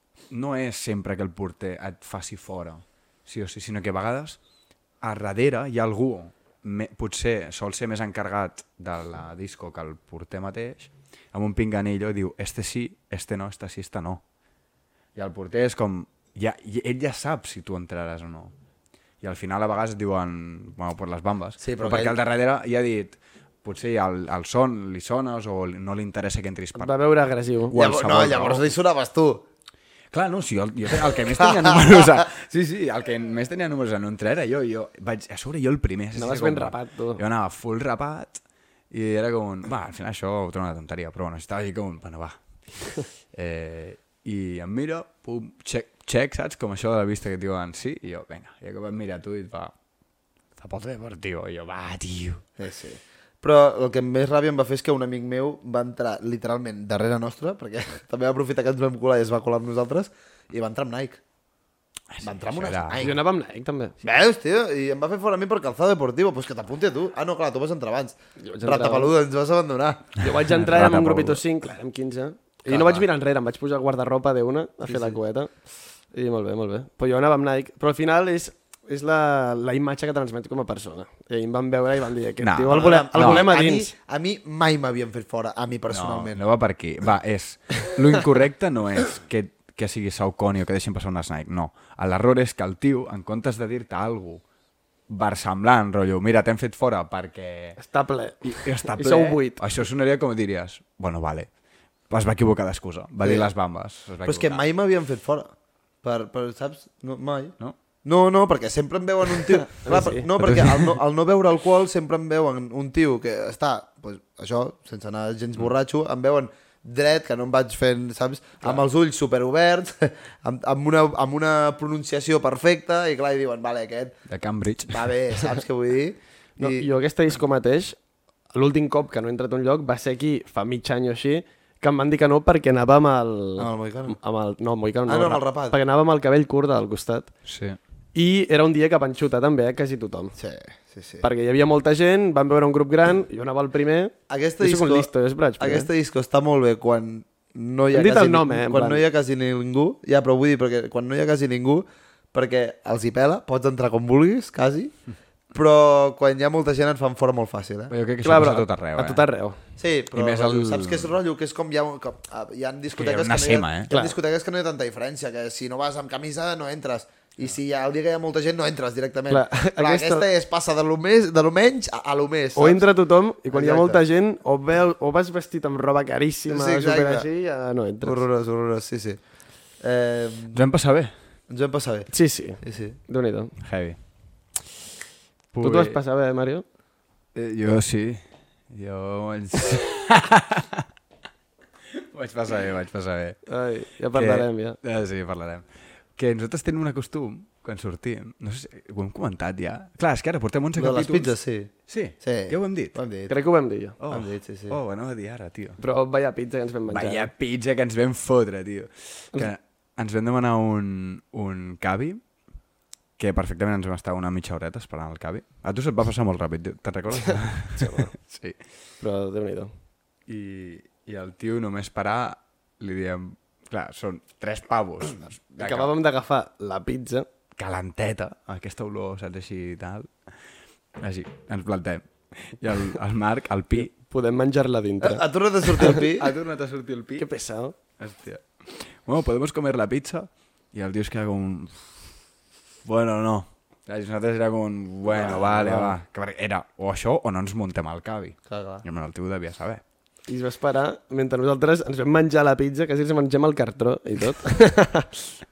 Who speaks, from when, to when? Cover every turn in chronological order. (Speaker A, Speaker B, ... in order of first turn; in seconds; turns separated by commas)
Speaker A: 0.3-4.4, Speaker A: 5.0-14.2, Speaker A: 15.2-18.5, Speaker A: 19.2-26.9, Speaker B: 21.6-22.2, Speaker C: 26.8-27.8, Speaker A: 27.7-28.7, Speaker B: 27.7-29.5, Speaker A: 30.1-49.7, Speaker B: 31.4-32.0, Speaker C: 36.1-37.2, Speaker A: 50.6-52.4, Speaker B: 52.6-61.2, Speaker A: 62.1-63.1, Speaker B: 62.2-63.2, Speaker C: 63.0-64.0, Speaker B: 64.0-70.2, Speaker C: 68.4-69.1, Speaker C: 70.2-75.5, Speaker A: 70.4-71.4, Speaker A: 72.7-73.1, Speaker B: 74.9-75.2, Speaker C: 76.1-83.9, Speaker A: 82.4-83.5, Speaker B: 82.7-86.4, Speaker A: 85.9-94.4, Speaker A: 95.1-97.8, Speaker C: 97.8-99.6, Speaker A: 98.4-101.5, Speaker A: 102.1-104.6, Speaker B: 103.2-103.5, Speaker B: 104.2-124.2, Speaker C: 109.7-110.3, Speaker A: 110.4-110.9, Speaker A: 124.3-125.1, Speaker B: 124.9-126.9, Speaker C: 126.6-128.0, Speaker C: 128.5-137.3, Speaker B: 133.6-134.2, Speaker B: 135.1-135.8, Speaker A: 137.5-137.8, Speaker C: 138.2-140.4, Speaker B: 140.4-141.2, Speaker C: 141.2-145.9, Speaker B: 144.3-154.9, Speaker C: 147.9-149.0, Speaker B: 155.5-157.9, Speaker A: 157.9-159.2, Speaker C: 158.2-159.6, Speaker B: 159.8-172.9, Speaker A: 160.2-161.1, Speaker A: 163.0-163.9, Speaker C: 163.9-164.2, Speaker C: 169.3-170.3, Speaker C: 172.6-178.2, Speaker B: 173.5-174.0, Speaker B: 176.5-177.3, Speaker B: 178.0-179.2, Speaker B: 179.8-180.6, Speaker A: 180.5-181.1, Speaker B: 181.5-183.0, Speaker C: 182.1-183.5, Speaker A: 183.6-184.0, Speaker A: 185.5-186.0, Speaker C: 185.6-186.6, Speaker A: 187.3-190.8, Speaker A: 192.0-193.5, Speaker C: 193.5-194.8, Speaker A: 194.1-195.7, Speaker A: 196.2-201.3, Speaker B: 200.8-203.3, Speaker A: 201.9-203.0, Speaker C: 203.3-204.0, Speaker A: 204.0-205.8, Speaker B: 204.1-204.8, Speaker C: 205.8-207.3, Speaker A: 206.9-212.2, Speaker A: 213.2-218.6, Speaker C: 217.8-218.1, Speaker C: 219.0-219.7, Speaker A: 220.3-225.9, Speaker C: 225.6-227.3, Speaker A: 227.6-230.1, Speaker A: 231.0-233.9, Speaker C: 233.8-236.0, Speaker B: 235.0-236.3, Speaker A: 235.8-237.3, Speaker C: 237.2-237.8, Speaker A: 238.0-242.1, Speaker A: 242.8-249.8, Speaker B: 245.1-245.9, Speaker B: 248.5-248.8, Speaker C: 250.3-255.3